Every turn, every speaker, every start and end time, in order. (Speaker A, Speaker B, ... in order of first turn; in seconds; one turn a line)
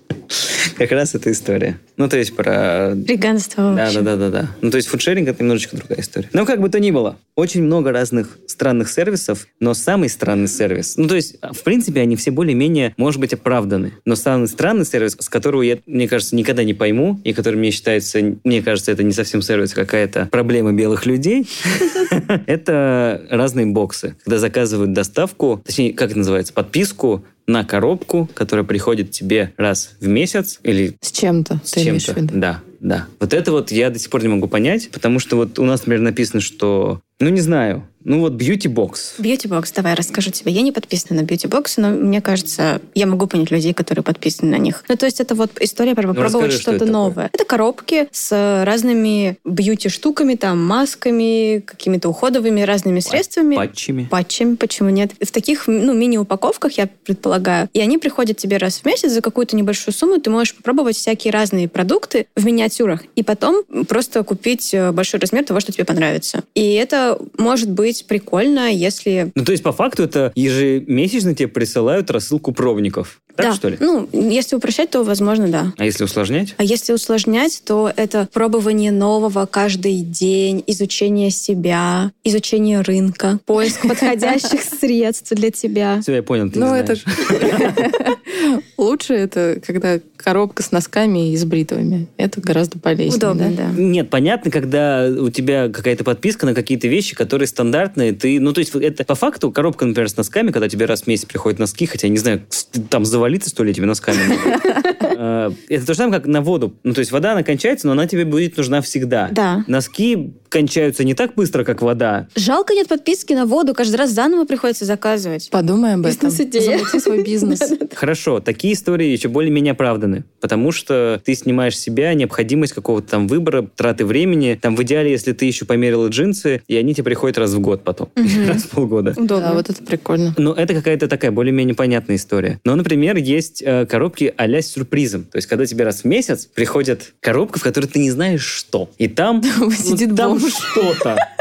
Speaker A: 0.3-3.1
Speaker B: 3.1-4.0
Speaker A: 3.7-31.0
Speaker C: 31.0-32.4
Speaker A: 31.7-39.2
Speaker B: 39.2-69.3
Speaker A: 46.1-47.1
Speaker A: 53.1-54.1
Speaker A: 69.4-73.8
Speaker B: 73.4-75.7
Speaker A: 75.8-76.6
Speaker B: 76.6-86.0
Speaker A: 86.0-87.9
Speaker C: 86.5-93.6
Speaker B: 93.1-93.8
Speaker A: 93.8-112.3
Speaker B: 109.3-109.7
Speaker B: 112.4-115.5
Speaker C: 115.5-117.7
Speaker B: 116.0-117.9
Speaker A: 118.0-129.2
Speaker B: 128.2-128.6
Speaker B: 129.2-129.6
Speaker C: 129.3-130.4
Speaker A: 130.4-141.2
Speaker C: 139.5-140.9